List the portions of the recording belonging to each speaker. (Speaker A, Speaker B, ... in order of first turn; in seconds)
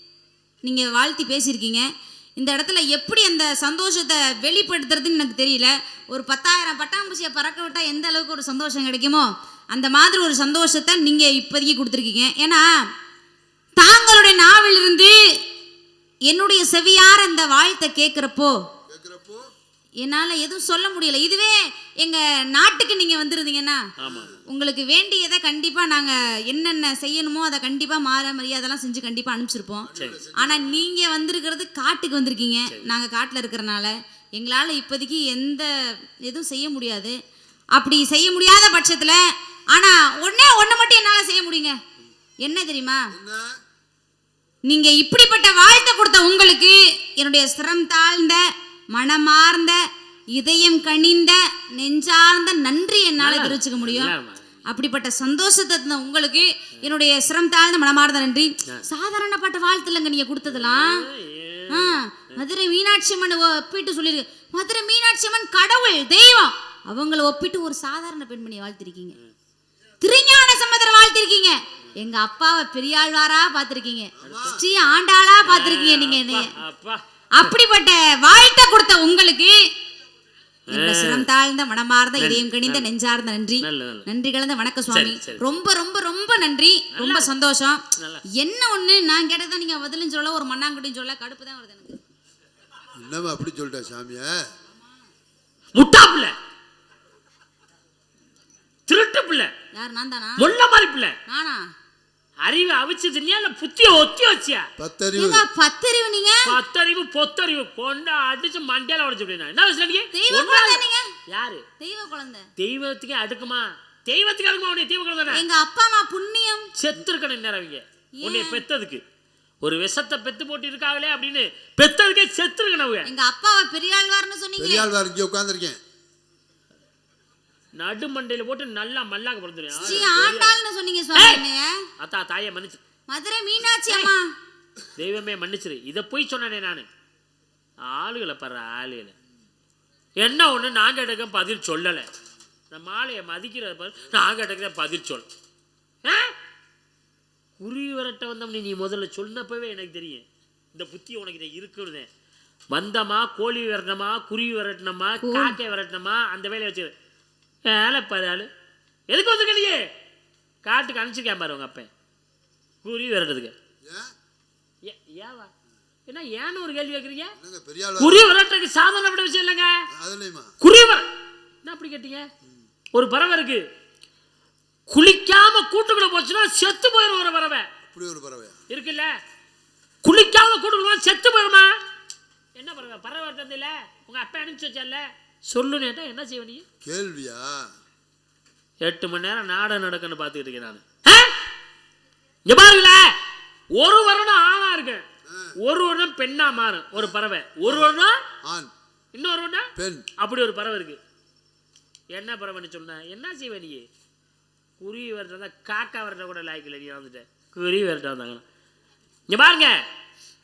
Speaker A: 0.6-12.6, 13.8-15.1, 16.3-18.5, 20.0-23.8, 24.5-35.7, 36.3-37.1, 37.8-39.2, 39.7-41.8, 42.4-43.0, 44.7-48.4, 48.9-49.8, 50.4-54.1, 54.7-61.0, 61.7-69.2, 70.0-76.5, 77.3-79.6, 80.7-87.8, 88.3-92.0, 99.7-100.5, 101.3-101.6, 105.2-106.5, 110.1-111.1, 111.8-112.5, 115.3-116.7, 118.1-118.6, 123.1-124.9, 129.8-131.7, 133.1-134.3, 155.2-155.6
Speaker B: 18.9-19.5, 24.0-24.4, 29.8-30.8, 43.1-43.6, 74.2-74.6, 93.0-94.4, 104.8-105.4, 124.6-125.8, 129.8-130.3, 163.8-164.1, 167.4-168.3, 169.9-170.5, 177.9-178.6, 186.8-187.7, 198.4-198.7, 199.8-200.1
Speaker C: 24.0-24.4, 29.9-30.2, 53.2-54.5, 60.5-62.4, 74.2-74.5, 75.4-77.5, 80.7-81.2, 82.2-82.8, 83.6-84.1, 84.9-85.4, 86.9-87.3, 88.0-88.2, 95.7-96.3, 98.9-99.5, 100.4-101.1, 102.4-104.7, 106.4-111.6, 112.6-115.4, 116.8-119.0, 119.6-123.1, 127.7-130.6, 131.1-131.4, 132.0-132.8, 133.8-134.1, 135.0-136.9, 137.8-139.1, 140.2-142.1, 142.7-145.2, 146.0-146.3, 147.6-152.1, 152.7-156.9, 157.7-158.5, 159.1-159.8, 160.6-161.9, 162.8-163.5, 164.8-165.5, 166.1-167.3, 168.0-169.8, 170.6-171.0, 171.6-172.3, 172.9-173.6, 174.9-177.7, 178.7-179.1, 180.0-181.7, 182.6-186.6, 188.8-191.3, 192.4-193.1, 193.7-195.0, 195.6-198.2, 199.1-201.0, 202.1-203.8, 204.8-208.4, 209.3-209.8